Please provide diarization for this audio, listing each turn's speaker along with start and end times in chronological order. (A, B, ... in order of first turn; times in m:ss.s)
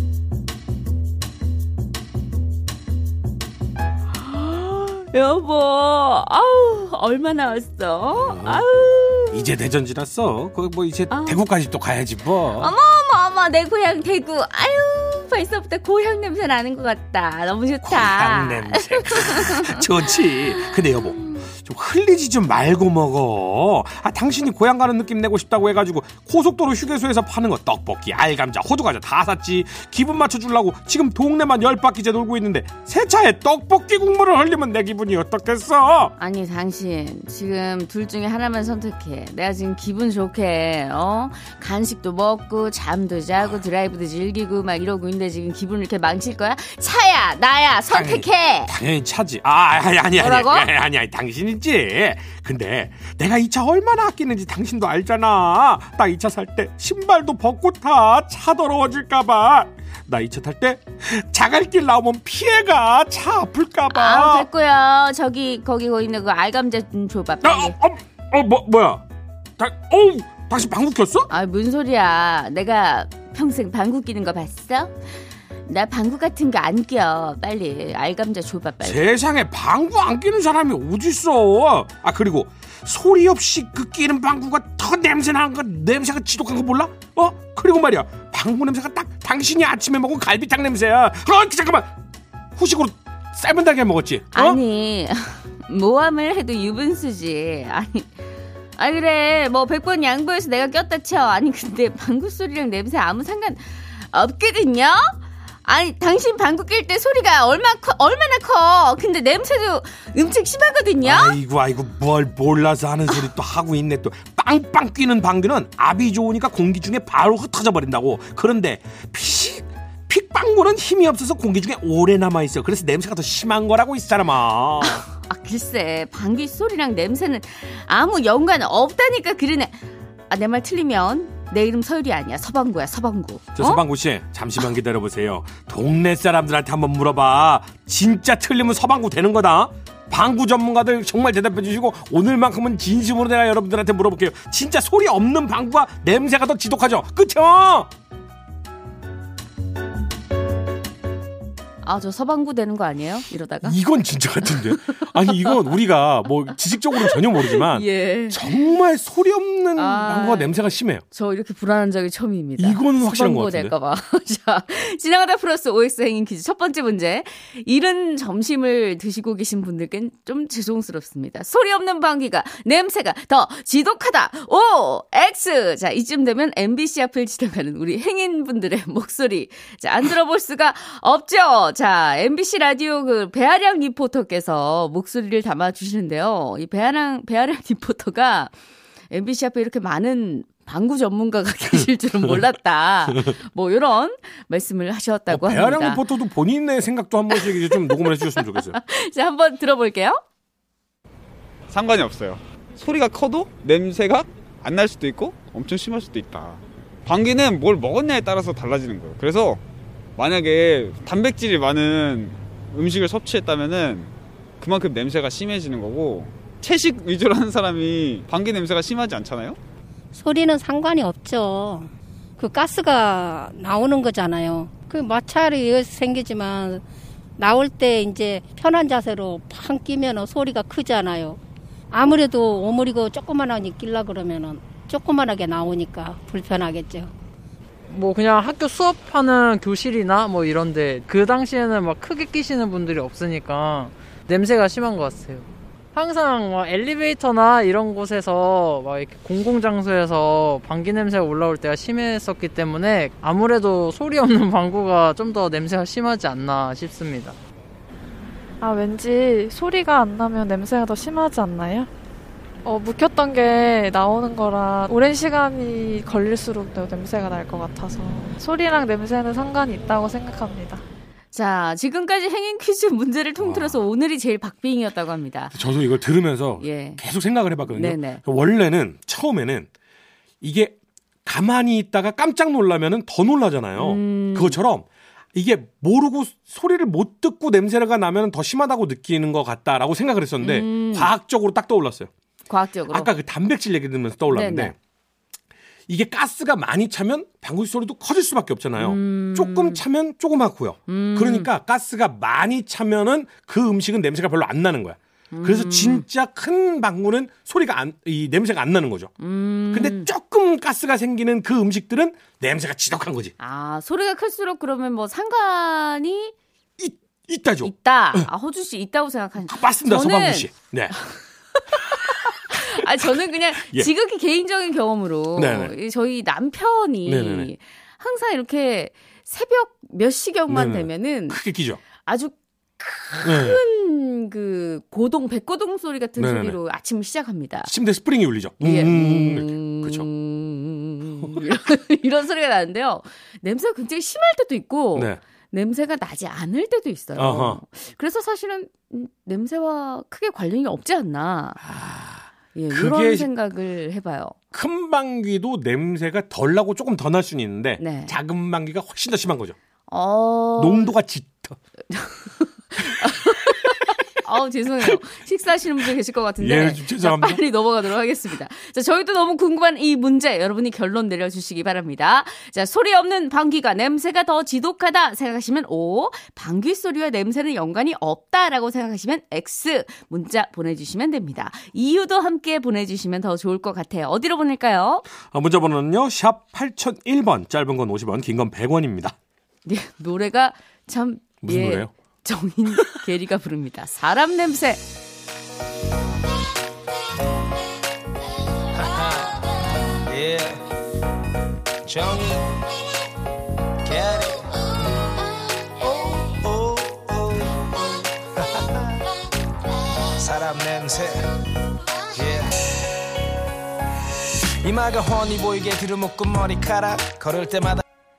0:04.2-0:09.5 A
0:08.2-0:08.6 B
0:09.3-0:12.7 B
0:11.1-0:11.4 A
0:12.6-0:21.4 A
0:17.8-0:36.1 B
0:36.2-0:48.7 A
0:47.9-1:04.5 B
0:50.2-0:50.7 A
1:03.9-1:07.8 A
1:07.4-1:09.0 B
1:09.6-1:11.3 B
1:11.3-1:14.9 A
1:15.7-1:19.0 A
1:18.8-1:31.9 B
1:32.6-1:34.6 B
1:34.3-1:38.1 A
1:38.8-1:51.4 A
1:51.0-2:05.0 B
2:04.8-2:09.8 A
2:10.3-2:13.8 A
2:13.6-2:27.9 B
2:31.8-2:33.7 A
2:33.6-2:41.0 B
2:34.5-2:35.6 A
2:37.0-2:38.6 A
2:39.8-2:40.5 A
2:41.1-3:08.5 A
2:42.6-2:43.7 B
3:09.1-3:16.0 A
3:15.3-3:18.8 B
3:17.3-3:20.2 A
3:21.7-3:29.6 C
3:30.2-3:39.6 C
3:40.1-3:46.8 D
3:47.4-3:51.4 D
3:51.9-3:57.1 D
3:57.9-4:17.4 E
4:18.6-4:21.9 F
4:22.6-4:30.8 F
4:31.3-4:35.5 A
4:33.4-4:33.8 B
4:35.5-4:39.7 B
4:36.6-4:37.0 A
4:37.7-4:38.2 A
4:40.4-4:40.7 B
4:41.2-4:52.1 B
4:43.8-4:44.6 A
4:50.4-4:51.1 A
4:52.5-4:53.1 A
4:52.9-4:54.7 B
4:54.3-4:54.7 A
4:55.9-5:09.1 B
4:58.8-4:59.8 A
5:00.9-5:01.5 A
5:05.3-5:06.0 A
5:09.2-5:10.1 A
5:09.7-5:13.3 B
5:13.4-5:16.3 A
5:16.8-5:18.3 B
5:17.6-5:20.5 A
5:19.5-5:20.9 B
5:21.0-5:31.4 A
5:22.5-5:23.9 B
5:25.4-5:25.7 B
5:27.0-5:27.5 B
5:30.5-5:31.8 B
5:32.0-5:37.7 A
5:33.2-5:33.6 B
5:36.2-5:36.6 B
5:37.6-5:40.0 B
5:38.6-5:51.6 A
5:44.9-5:45.2 B
5:47.2-5:47.6 B
5:51.6-5:53.3 B
5:52.5-5:54.4 A
5:54.5-5:59.6 B
5:57.8-5:58.1 A
5:59.9-6:00.9 A
6:00.6-6:01.6 B
6:01.9-6:25.0 A
6:06.4-6:07.4 B
6:25.3-6:29.2 B
6:29.6-6:34.8 A
6:31.4-6:31.9 B
6:38.7-6:40.6 G
6:41.8-6:42.6 G
6:43.8-6:44.4 G
6:45.8-6:49.0 G
6:50.1-6:51.2 G
6:52.1-6:52.7 G
6:54.6-6:57.8 G